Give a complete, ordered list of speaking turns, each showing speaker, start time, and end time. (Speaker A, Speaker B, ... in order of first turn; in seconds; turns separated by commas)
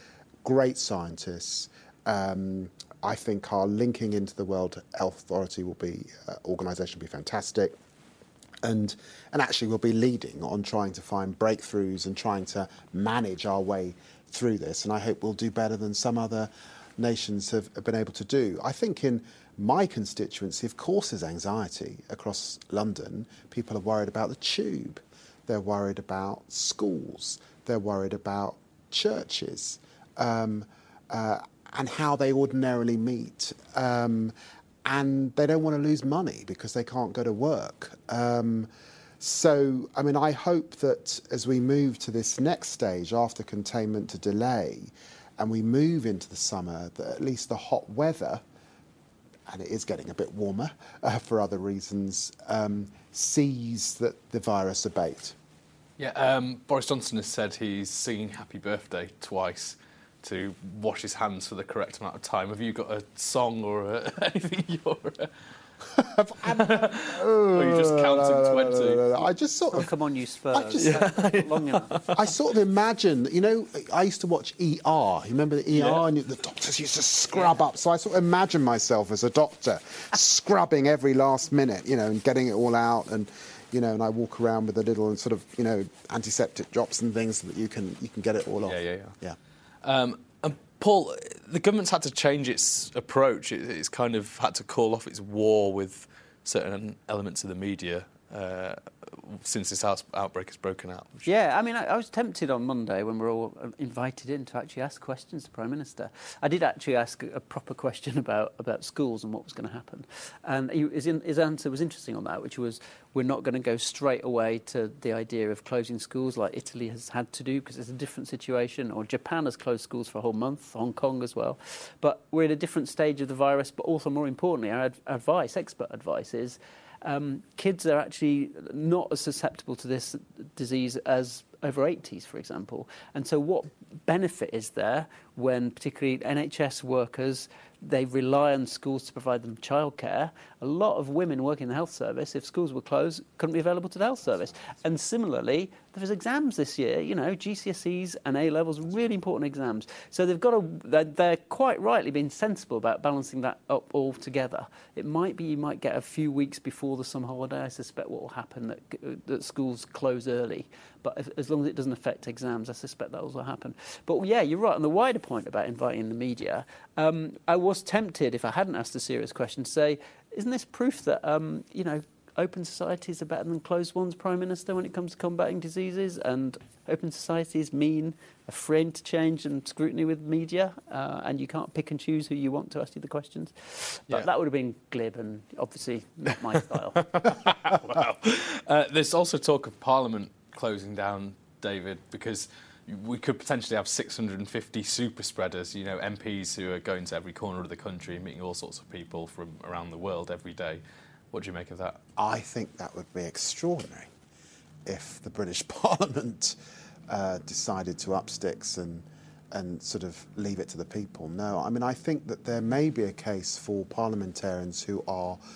Speaker A: 0.4-7.7, Speaker A: 8.6-34.3, Speaker A: 34.9-48.4, Speaker A: 49.5-55.4, Speaker B: 56.0-65.3, Speaker A: 66.0-69.9, Speaker B: 66.5-69.2, Speaker C: 69.7-72.0, Speaker A: 70.5-71.0, Speaker B: 70.8-72.3, Speaker A: 72.1-89.4, Speaker B: 75.8-76.0, Speaker B: 88.7-89.2, Speaker B: 89.8-101.3, Speaker C: 101.2-187.1, Speaker B: 187.1-202.0, Speaker A: 202.2-204.1, Speaker A: 204.9-206.6, Speaker A: 207.1-215.4